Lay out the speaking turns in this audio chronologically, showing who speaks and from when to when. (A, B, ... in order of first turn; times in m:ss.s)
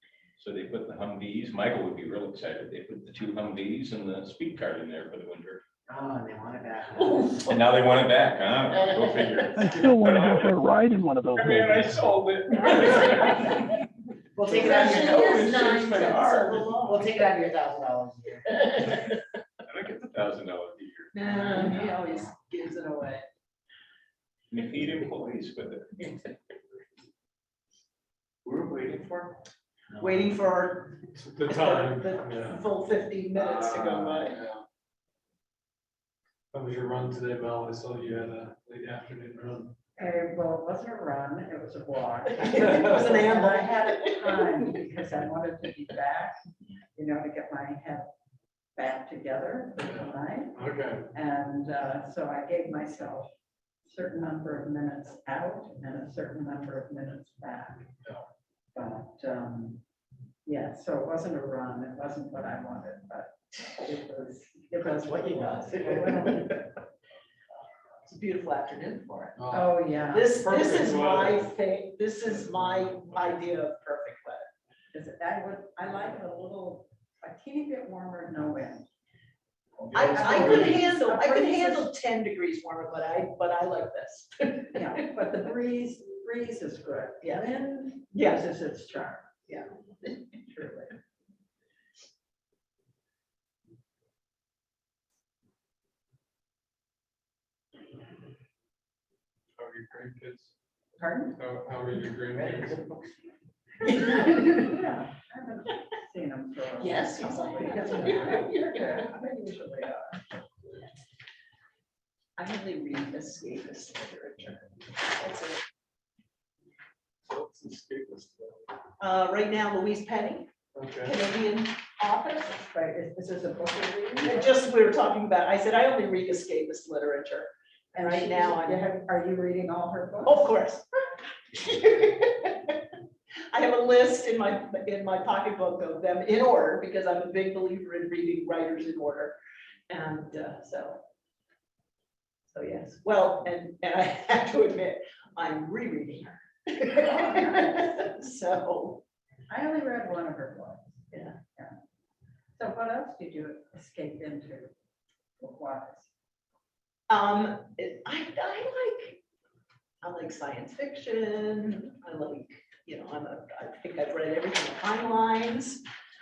0:00.4-0:05.6 A
0:05.9-0:07.4 B
0:07.0-0:07.3 C
0:07.4-0:10.6 A
0:09.6-0:12.1 D
0:11.3-0:13.6 A
0:14.4-0:15.5 B
0:14.4-0:17.1 C
0:15.1-0:16.6 A
0:16.1-0:16.4 E
0:16.7-0:18.9 B
0:19.7-0:21.8 A
0:21.1-0:23.3 C
0:21.4-0:22.3 B
0:24.5-0:26.2 A
0:28.4-0:29.4 E
0:29.9-0:30.3 B
0:30.0-0:34.4 C
0:31.2-0:32.7 F
0:33.3-0:34.3 E
0:34.3-0:34.6 F
0:36.5-0:39.8 F
0:40.0-0:46.4 G
0:42.4-0:44.5 C
0:42.7-0:43.1 F
0:47.0-0:48.1 G
0:48.8-0:50.6 G
0:49.8-0:51.1 F
0:51.1-0:53.3 G
0:53.8-0:57.9 G
0:58.7-0:59.8 G
1:00.4-1:06.7 G
1:05.0-1:05.5 B
1:08.0-1:09.4 C
1:09.4-1:09.8 F
1:09.5-1:10.4 G
1:10.1-1:14.5 C
1:10.4-1:11.5 F
1:12.4-1:13.2 F
1:14.9-1:18.9 G
1:19.8-1:20.8 F
1:19.9-1:21.9 G
1:19.9-1:24.8 C
1:24.7-1:29.3 G
1:28.1-1:28.5 C
1:30.3-1:31.0 G
1:39.6-1:40.5 F
1:41.0-1:41.4 G
1:41.3-1:43.0 F
1:43.8-1:44.6 C
1:43.8-1:50.2 G
1:46.8-1:49.1 C
1:52.4-1:55.6 C
1:57.2-1:58.7 F
1:59.0-2:00.5 C
2:00.8-2:01.2 F
2:01.0-2:02.6 C
2:02.6-2:04.4 G
2:04.2-2:08.9 C
2:07.9-2:10.6 G
2:10.2-2:10.8 C
2:11.5-2:12.8 C
2:13.5-2:19.3 C
2:19.9-2:21.0 C
2:22.5-2:29.0 C
2:26.9-2:28.0 G
2:29.5-2:31.7 G
2:31.1-2:31.4 C
2:32.6-2:34.7 G
2:35.4-2:36.1 G
2:37.1-2:39.2 C
2:40.0-2:45.8 C